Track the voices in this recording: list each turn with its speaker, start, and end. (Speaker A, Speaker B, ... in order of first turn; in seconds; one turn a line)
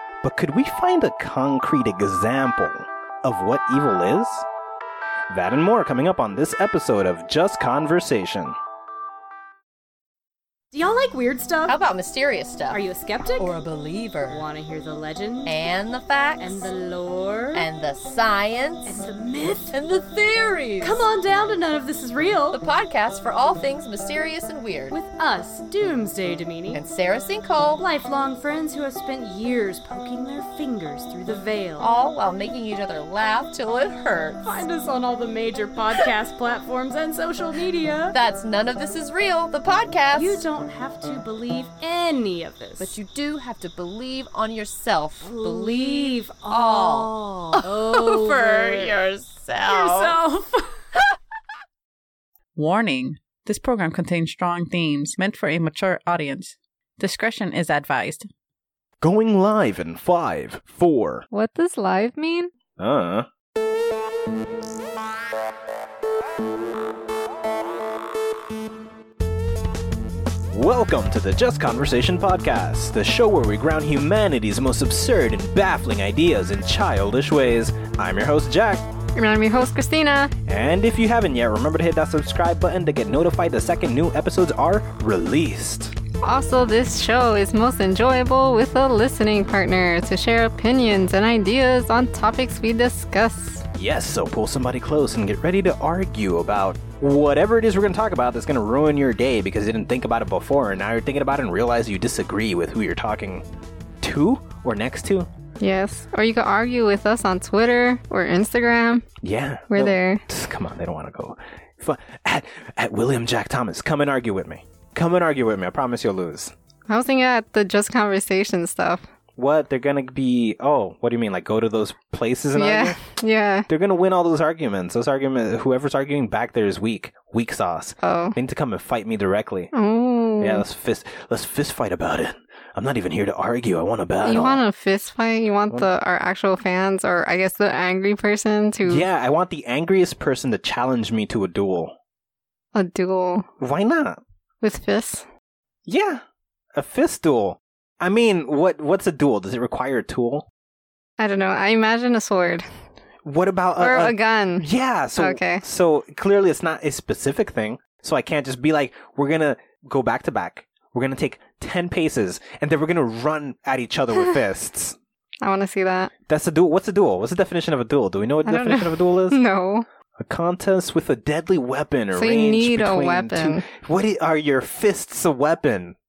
Speaker A: 0.2-4.5
Speaker A: 5.3-8.6
Speaker B: 10.7-11.8
Speaker C: 11.7-12.8
Speaker B: 12.7-13.6
Speaker C: 13.4-14.4
Speaker B: 14.2-15.6
Speaker C: 15.4-16.7
Speaker B: 16.4-17.7
Speaker C: 17.5-19.1
Speaker B: 18.9-19.8
Speaker C: 19.7-21.1
Speaker B: 20.8-22.6
Speaker C: 22.5-25.0
Speaker B: 24.9-26.8
Speaker C: 26.7-27.8
Speaker B: 27.8-32.0
Speaker C: 31.8-34.6
Speaker B: 34.4-38.2
Speaker C: 38.1-40.4
Speaker B: 40.1-43.0
Speaker C: 42.8-50.2
Speaker B: 45.2-49.0
Speaker B: 49.7-50.8
Speaker D: 52.5-58.3
Speaker A: 59.0-61.2
Speaker E: 61.3-62.5
Speaker A: 62.8-63.3
Speaker A: 70.5-78.8
Speaker E: 79.2-80.3
Speaker A: 80.5-85.9
Speaker E: 86.2-93.7
Speaker A: 93.8-103.4
Speaker A: 104.0-105.3
Speaker E: 105.6-109.1
Speaker A: 109.2-116.5
Speaker E: 109.7-110.2
Speaker E: 116.9-119.1
Speaker A: 119.4-123.0
Speaker E: 122.5-123.7
Speaker A: 123.7-129.7
Speaker E: 128.0-128.4
Speaker E: 129.7-130.7
Speaker A: 130.4-134.6
Speaker E: 134.2-139.1
Speaker A: 138.9-142.0
Speaker E: 142.7-143.5
Speaker A: 143.6-144.2
Speaker E: 144.6-145.3
Speaker A: 145.9-146.2
Speaker A: 146.8-150.5
Speaker E: 151.2-152.7
Speaker A: 153.2-165.0
Speaker E: 153.8-155.7
Speaker E: 165.4-166.1
Speaker A: 166.3-169.4
Speaker E: 168.4-169.9
Speaker A: 170.2-176.0
Speaker E: 172.2-173.7